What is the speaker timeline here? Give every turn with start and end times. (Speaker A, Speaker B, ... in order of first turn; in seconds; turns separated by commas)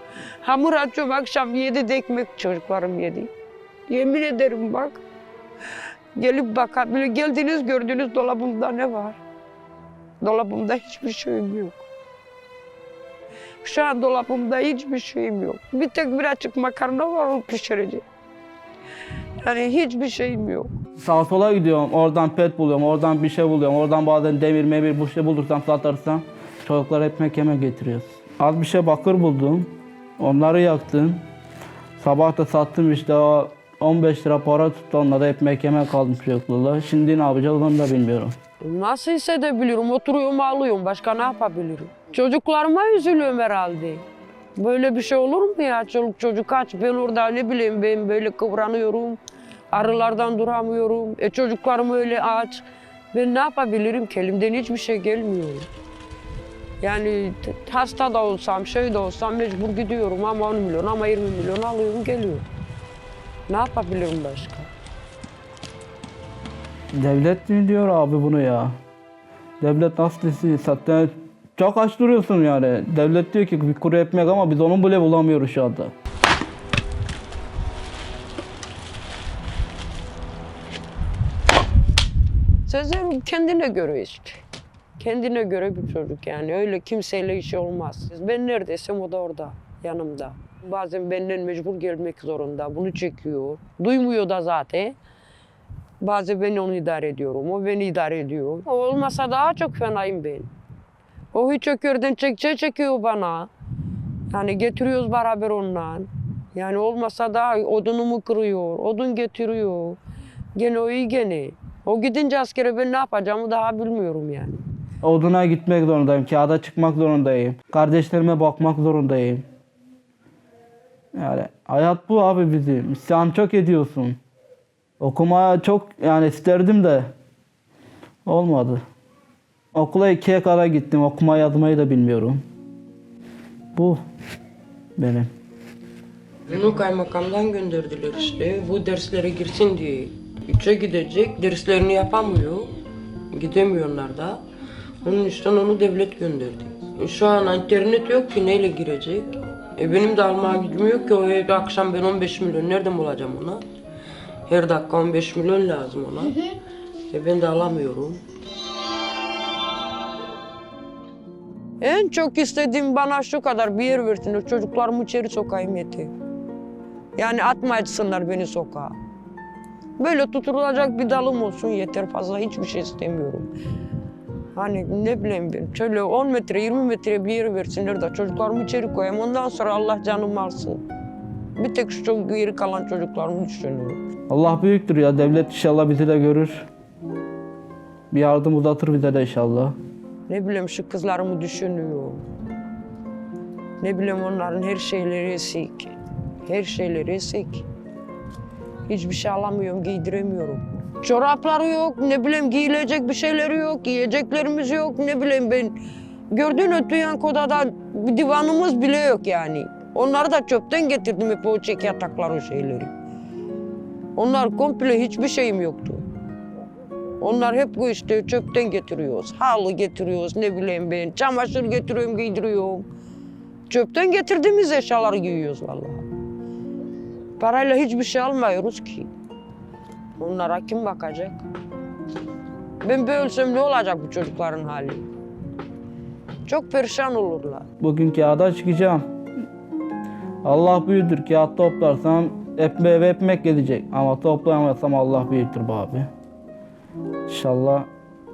Speaker A: 0.4-3.3, Speaker A: 3.9-5.0, Speaker A: 6.2-9.2, Speaker A: 10.2-11.9, Speaker A: 13.6-18.0, Speaker A: 19.4-20.8, Speaker B: 21.0-31.2, Speaker B: 32.0-38.3, Speaker A: 38.6-44.0, Speaker A: 44.6-55.7, Speaker A: 56.8-62.5, Speaker A: 63.5-64.7, Speaker B: 66.9-68.7, Speaker B: 69.6-75.9, Speaker A: 82.7-84.4, Speaker A: 85.0-95.0, Speaker A: 96.0-100.5, Speaker A: 101.3-103.5, Speaker A: 104.3-110.0, Speaker A: 110.5-114.6, Speaker B: 115.0-119.5, Speaker B: 121.2-124.2, Speaker B: 125.0-127.1, Speaker B: 128.3-128.8, Speaker B: 129.7-132.4, Speaker B: 133.8-134.0, Speaker B: 135.0-135.3, Speaker A: 136.5-142.7, Speaker A: 143.3-144.4, Speaker A: 145.0-153.6, Speaker A: 154.5-156.6, Speaker A: 157.1-158.2, Speaker A: 161.8-166.1, Speaker A: 167.2-168.9, Speaker A: 170.0-173.5, Speaker A: 174.5-180.8, Speaker A: 181.6-184.0, Speaker B: 184.3-186.7, Speaker B: 188.1-189.8, Speaker A: 190.3-192.2, Speaker A: 193.8-195.9, Speaker A: 196.5-197.7, Speaker A: 198.9-205.8, Speaker A: 206.3-212.9, Speaker A: 214.2-216.1, Speaker A: 217.2-222.9, Speaker A: 223.7-226.1, Speaker A: 227.4-229.1, Speaker A: 230.2-231.4, Speaker A: 232.8-235.1, Speaker A: 236.5-237.7, Speaker B: 237.8-239.1, Speaker B: 240.4-246.1, Speaker B: 247.3-247.9